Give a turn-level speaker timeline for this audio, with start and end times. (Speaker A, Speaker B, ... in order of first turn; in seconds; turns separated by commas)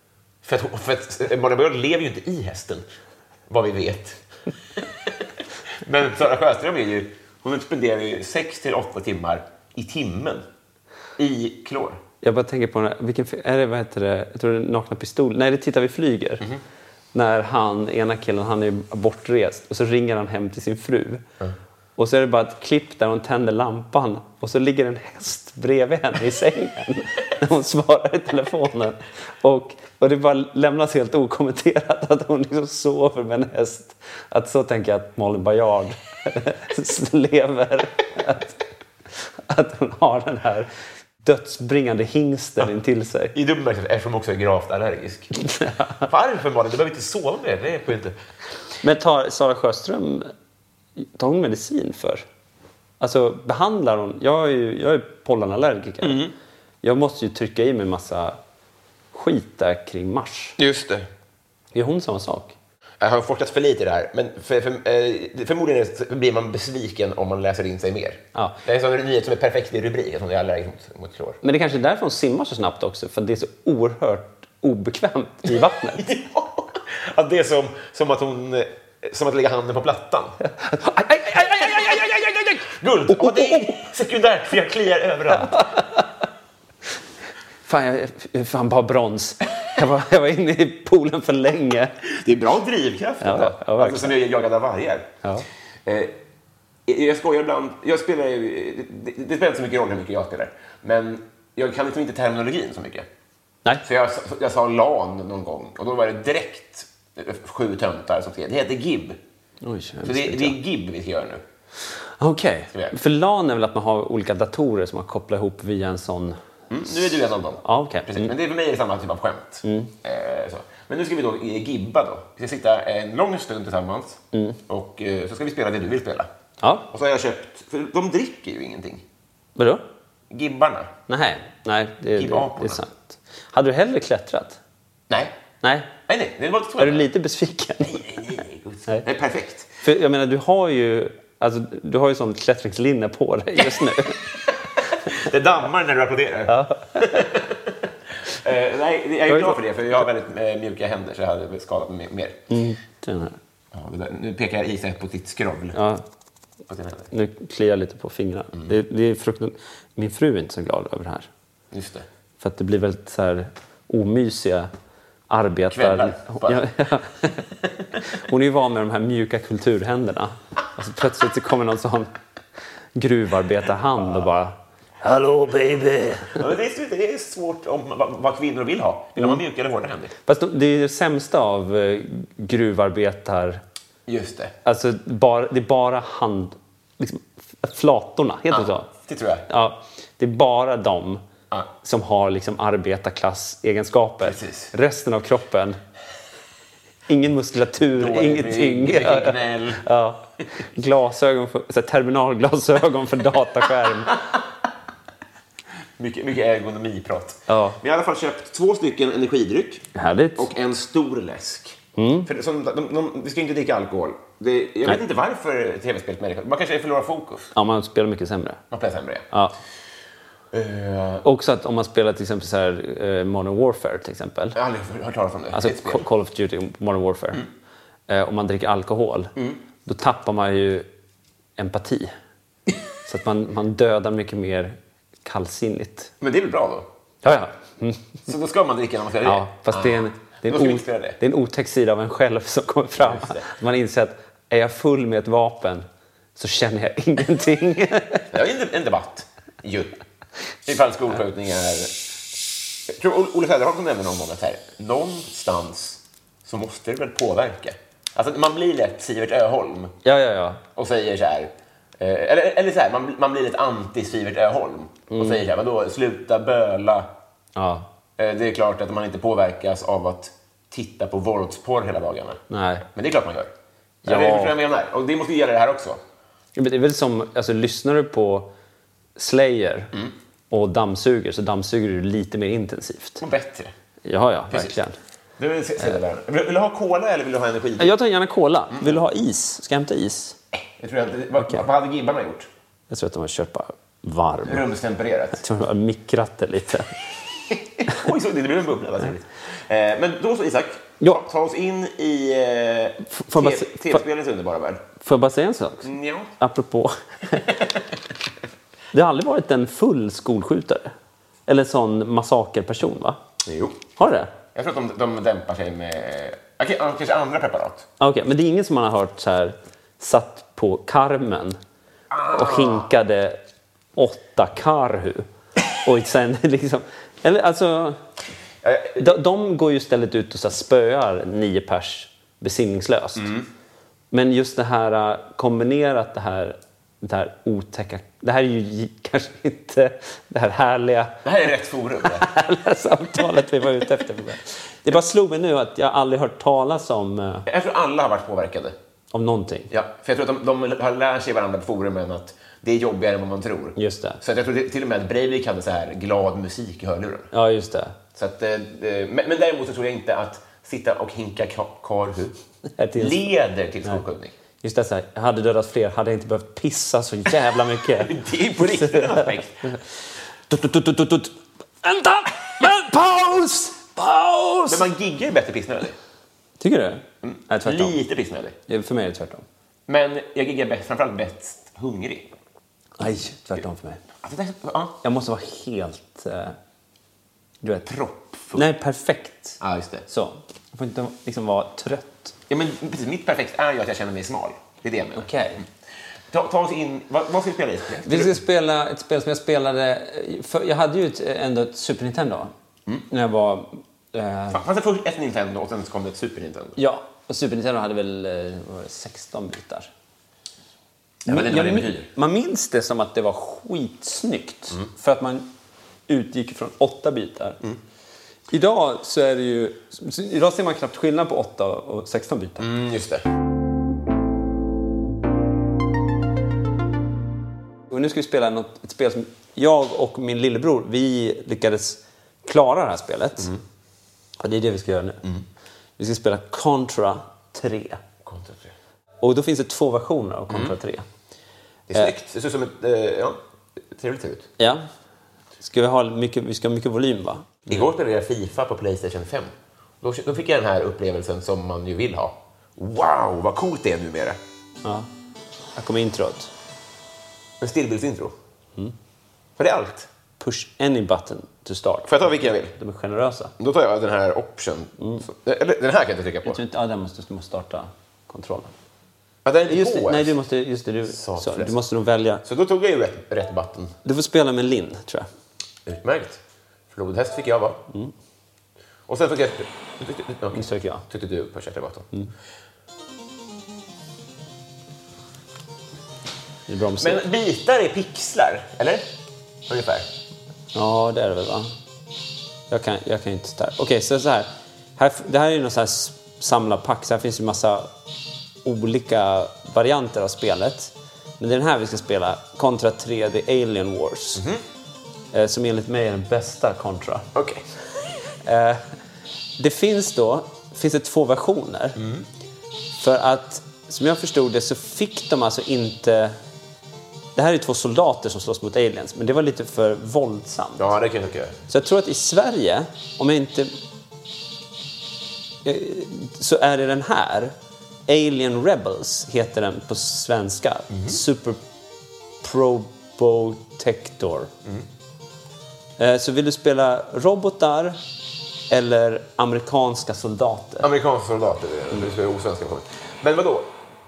Speaker A: 0.4-2.8, Speaker A: 3.5-4.2, Speaker A: 5.8-10.4, Speaker A: 11.2-12.0, Speaker B: 12.2-16.4, Speaker B: 17.1-21.2, Speaker B: 22.0-38.6, Speaker B: 39.5-40.7, Speaker B: 41.2-43.3, Speaker A: 43.3-45.4, Speaker B: 45.4-46.0, Speaker A: 46.0-48.1, Speaker B: 48.8-50.3, Speaker B: 51.0-52.2, Speaker B: 53.0-56.2, Speaker A: 56.0-56.3, Speaker B: 56.8-58.4, Speaker B: 59.1-60.5, Speaker A: 60.6-61.1, Speaker B: 61.7-62.5, Speaker A: 63.0-71.4, Speaker B: 68.3-68.6, Speaker B: 71.4-76.0, Speaker A: 75.6-80.4, Speaker B: 80.6-82.6, Speaker A: 82.6-85.7, Speaker B: 83.1-83.8, Speaker B: 85.3-86.1, Speaker B: 87.7-91.9, Speaker A: 92.2-95.2, Speaker B: 93.2-94.2, Speaker A: 95.8-96.2, Speaker A: 96.9-103.0, Speaker A: 103.8-109.2, Speaker B: 109.6-110.5, Speaker A: 110.0-111.4, Speaker B: 112.2-116.4, Speaker A: 116.7-126.3, Speaker B: 117.6-118.3, Speaker B: 119.6-119.9, Speaker B: 124.3-124.6, Speaker B: 126.6-126.9, Speaker A: 126.9-129.0, Speaker B: 129.6-129.8, Speaker A: 130.3-130.9, Speaker B: 131.1-134.6, Speaker A: 132.2-132.8, Speaker A: 135.1-135.3, Speaker B: 135.6-135.9, Speaker A: 136.1-137.0, Speaker B: 136.8-138.2, Speaker A: 137.8-139.7, Speaker B: 139.8-144.2, Speaker A: 143.7-144.1, Speaker A: 145.1-147.5, Speaker B: 146.5-147.2, Speaker A: 148.2-152.5, Speaker B: 149.3-149.6, Speaker B: 152.5-153.4, Speaker A: 153.7-155.8, Speaker B: 155.7-156.0, Speaker A: 156.7-157.1, Speaker B: 157.1-161.3, Speaker A: 161.7-162.1, Speaker B: 162.4-164.7, Speaker B: 165.3-167.4, Speaker A: 165.7-166.6, Speaker B: 168.1-172.1, Speaker B: 172.9-176.5, Speaker A: 176.4-180.1, Speaker B: 180.2-183.6, Speaker A: 184.1-184.5, Speaker B: 184.6-188.9, Speaker A: 188.5-189.5, Speaker B: 189.5-191.2, Speaker B: 191.8-195.8, Speaker A: 194.2-194.7, Speaker B: 197.1-204.2, Speaker A: 197.9-199.8, Speaker A: 206.0-217.5, Speaker B: 207.5-207.8, Speaker B: 209.9-210.5, Speaker B: 211.9-212.3, Speaker B: 217.5-218.6, Speaker A: 218.7-219.3, Speaker A: 220.5-221.2, Speaker B: 221.2-224.6, Speaker A: 224.5-226.0, Speaker B: 225.5-227.4, Speaker B: 228.1-229.3, Speaker A: 229.3-229.6, Speaker B: 229.8-230.9, Speaker B: 231.6-232.1, Speaker B: 233.1-236.1, Speaker A: 236.2-236.9, Speaker B: 237.2-238.0, Speaker A: 238.3-241.2, Speaker B: 239.2-248.3, Speaker A: 243.0-243.5, Speaker A: 248.3-250.0, Speaker A: 250.7-251.9, Speaker A: 252.9-259.9, Speaker B: 260.0-260.6, Speaker A: 260.7-267.1, Speaker B: 265.1-265.4, Speaker B: 267.6-267.9, Speaker A: 268.2-273.5, Speaker B: 272.5-272.8, Speaker B: 274.0-274.5, Speaker A: 274.1-276.0, Speaker B: 276.5-278.5, Speaker B: 279.2-279.9, Speaker B: 280.5-283.2, Speaker A: 283.2-283.7, Speaker B: 284.0-284.9, Speaker A: 284.5-284.8, Speaker A: 285.4-287.9, Speaker B: 287.8-290.4, Speaker A: 290.8-292.5, Speaker B: 292.9-294.6, Speaker A: 294.4-295.4, Speaker B: 295.4-296.9, Speaker A: 297.9-304.9, Speaker B: 303.1-304.0, Speaker B: 305.0-305.9, Speaker A: 305.8-306.3, Speaker B: 306.4-307.4, Speaker B: 308.9-310.9, Speaker B: 311.5-313.2, Speaker A: 313.4-313.9, Speaker B: 314.0-314.3, Speaker A: 314.5-317.9, Speaker B: 318.0-321.6, Speaker A: 322.1-322.9, Speaker B: 322.3-323.4, Speaker B: 323.9-325.3, Speaker B: 325.8-328.0, Speaker A: 328.6-329.1, Speaker B: 329.0-333.3, Speaker A: 333.2-333.5, Speaker B: 334.1-341.2, Speaker A: 341.2-342.3, Speaker B: 342.1-347.4, Speaker A: 347.5-348.7, Speaker B: 349.1-349.7, Speaker A: 349.7-357.3, Speaker B: 353.8-354.2, Speaker B: 357.3-358.0, Speaker A: 358.1-362.4, Speaker B: 362.8-363.2, Speaker A: 363.0-364.3, Speaker B: 364.6-369.3, Speaker A: 368.0-369.6, Speaker B: 370.5-374.9, Speaker A: 374.7-376.0, Speaker B: 376.6-378.0, Speaker A: 377.2-378.6, Speaker B: 378.7-379.4, Speaker A: 379.9-382.3, Speaker B: 383.0-384.0, Speaker A: 384.2-385.0, Speaker B: 385.0-386.6, Speaker A: 387.9-388.6, Speaker B: 388.5-392.3, Speaker A: 389.6-390.1, Speaker A: 392.5-395.6, Speaker B: 395.1-395.6, Speaker A: 396.3-398.4, Speaker B: 398.0-402.5, Speaker B: 403.1-404.6, Speaker A: 404.5-406.8, Speaker B: 406.8-409.9, Speaker A: 411.2-412.1, Speaker B: 411.3-415.5, Speaker B: 416.1-417.6, Speaker B: 418.5-422.6, Speaker A: 422.6-423.2, Speaker B: 427.9-433.5, Speaker B: 434.4-435.2, Speaker B: 436.0-438.0, Speaker A: 438.2-438.7, Speaker B: 439.2-441.0, Speaker A: 440.5-440.7, Speaker A: 441.9-443.4, Speaker A: 443.9-444.5, Speaker B: 444.6-444.9, Speaker B: 445.6-447.8, Speaker A: 447.7-454.4, Speaker B: 455.8-456.5, Speaker A: 457.6-458.3, Speaker A: 459.6-460.1, Speaker B: 460.4-463.5, Speaker A: 462.1-462.8, Speaker A: 463.6-466.6, Speaker B: 466.4-468.7, Speaker A: 469.4-470.3, Speaker B: 469.7-472.4, Speaker A: 471.1-471.7, Speaker A: 472.4-474.0, Speaker B: 474.0-475.3, Speaker A: 475.9-476.4, Speaker A: 476.9-477.8, Speaker A: 479.1-482.1, Speaker B: 480.5-481.0, Speaker B: 486.7-487.2, Speaker A: 487.0-489.1, Speaker A: 489.7-490.1, Speaker B: 490.7-491.7, Speaker B: 492.7-497.9, Speaker B: 498.6-504.4, Speaker A: 504.4-504.6, Speaker B: 505.3-507.3, Speaker A: 507.3-507.6, Speaker B: 508.4-508.8, Speaker B: 509.6-512.0, Speaker A: 512.0-512.2, Speaker B: 512.9-516.4, Speaker B: 517.3-520.9, Speaker A: 520.8-521.6, Speaker B: 521.7-523.7, Speaker B: 525.6-527.5, Speaker B: 528.1-531.6, Speaker A: 530.9-531.2, Speaker B: 532.4-534.5, Speaker B: 536.0-538.0, Speaker B: 538.7-540.9, Speaker A: 540.8-543.7